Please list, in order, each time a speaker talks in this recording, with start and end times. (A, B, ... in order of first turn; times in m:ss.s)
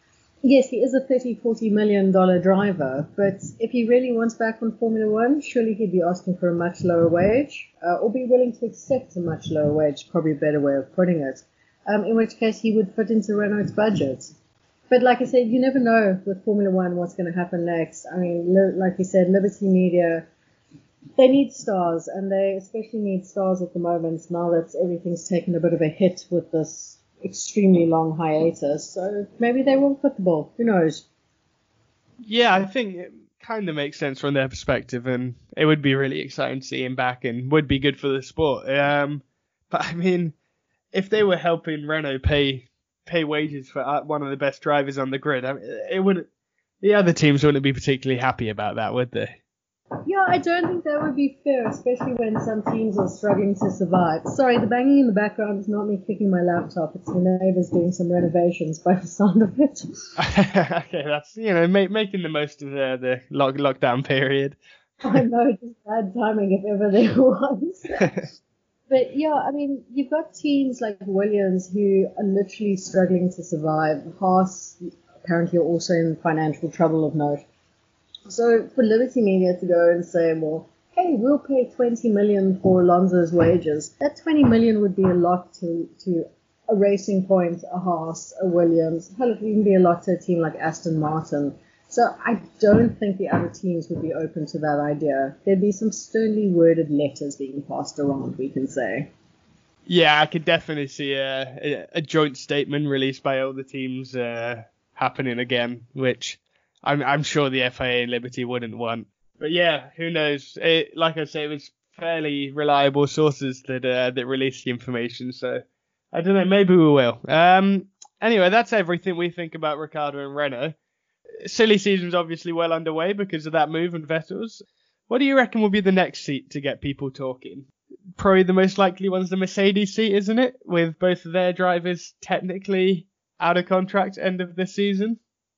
0:00.4-0:14.3 A
0:14.9-0:20.3 A
0:21.2-0:31.0 A
0:32.2-0:40.4 B
0:40.9-0:46.3 B
0:46.8-0:49.3 B
0:50.1-1:00.2 A
1:00.2-1:04.6 B
1:05.0-1:08.3 A
1:08.9-1:17.4 A
1:18.3-1:39.1 A
1:39.9-2:00.8 B
2:01.4-2:15.2 B